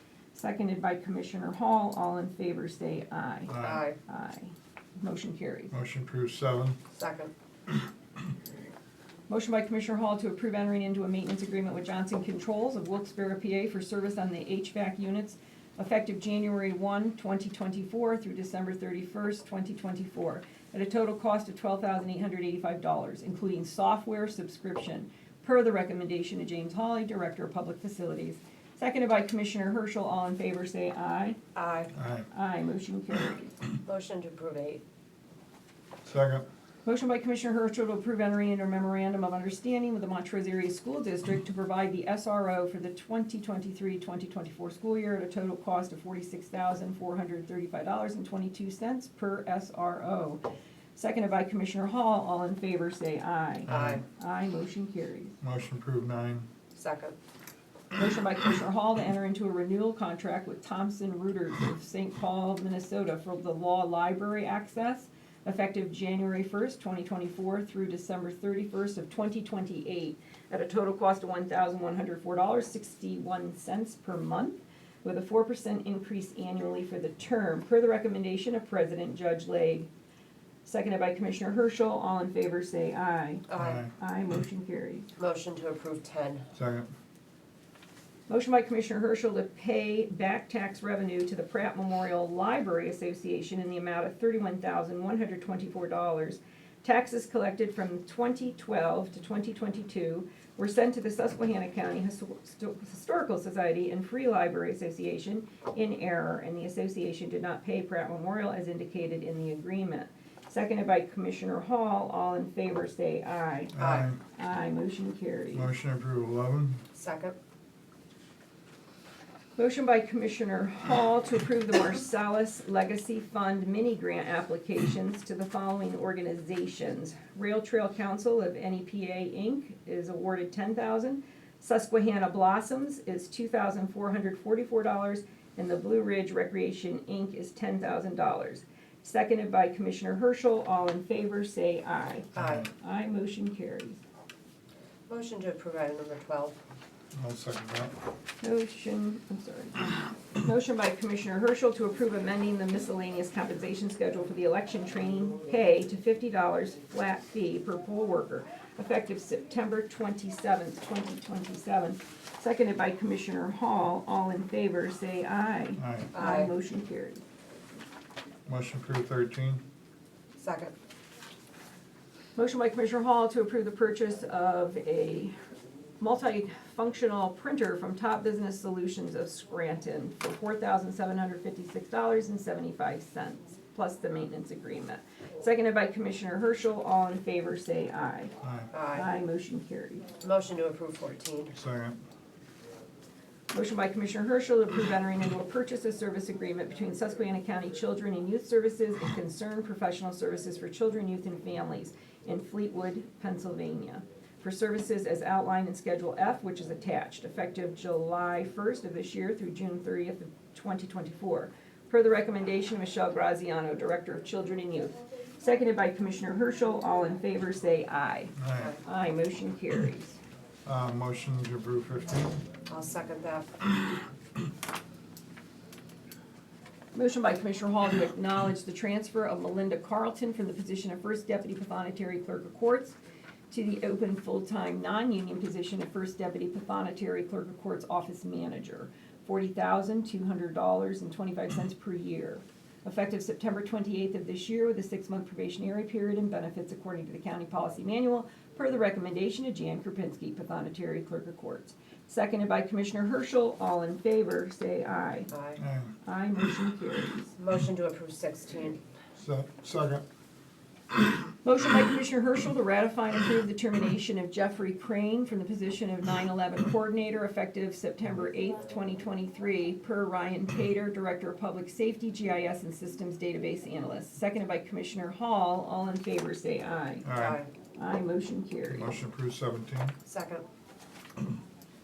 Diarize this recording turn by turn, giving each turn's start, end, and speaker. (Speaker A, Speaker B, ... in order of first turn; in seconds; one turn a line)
Speaker A: 0.3-3.6
Speaker B: 3.5-3.8
Speaker C: 3.6-4.0
Speaker A: 4.1-5.7
Speaker B: 5.7-6.8
Speaker C: 6.9-7.3
Speaker A: 9.3-31.4
Speaker C: 31.6-31.9
Speaker B: 31.9-32.3
Speaker A: 32.3-33.5
Speaker C: 33.9-34.8
Speaker B: 36.0-36.5
Speaker A: 36.9-50.4
Speaker A: 51.0-55.4
Speaker C: 53.7-54.0
Speaker B: 53.7-54.0
Speaker B: 55.4-56.5
Speaker C: 56.7-57.1
Speaker A: 58.0-79.9
Speaker A: 80.6-85.1
Speaker C: 83.5-83.8
Speaker B: 83.6-83.9
Speaker C: 85.2-86.5
Speaker B: 86.5-86.9
Speaker A: 88.3-113.7
Speaker B: 113.8-114.2
Speaker C: 113.8-114.1
Speaker A: 114.4-115.7
Speaker B: 115.5-116.8
Speaker C: 116.9-117.3
Speaker A: 119.6-144.0
Speaker B: 142.4-142.7
Speaker C: 145.1-146.6
Speaker B: 147.1-147.9
Speaker A: 148.4-167.2
Speaker B: 165.8-166.1
Speaker C: 166.1-166.5
Speaker B: 168.5-169.6
Speaker C: 170.4-170.7
Speaker A: 172.4-175.3
Speaker A: 176.0-188.3
Speaker B: 188.4-188.7
Speaker C: 188.7-189.1
Speaker A: 188.9-190.1
Speaker C: 190.2-191.6
Speaker B: 191.5-192.0
Speaker A: 193.5-220.2
Speaker B: 218.4-218.8
Speaker B: 220.7-222.4
Speaker C: 222.7-223.7
Speaker A: 226.9-233.0
Speaker A: 233.5-255.3
Speaker C: 255.3-255.6
Speaker B: 255.6-255.9
Speaker A: 256.1-257.4
Speaker C: 257.4-258.8
Speaker B: 259.2-260.0
Speaker A: 261.4-277.1
Speaker B: 277.0-277.4
Speaker C: 277.2-277.5
Speaker A: 277.8-278.9
Speaker B: 278.7-280.0
Speaker C: 280.1-280.4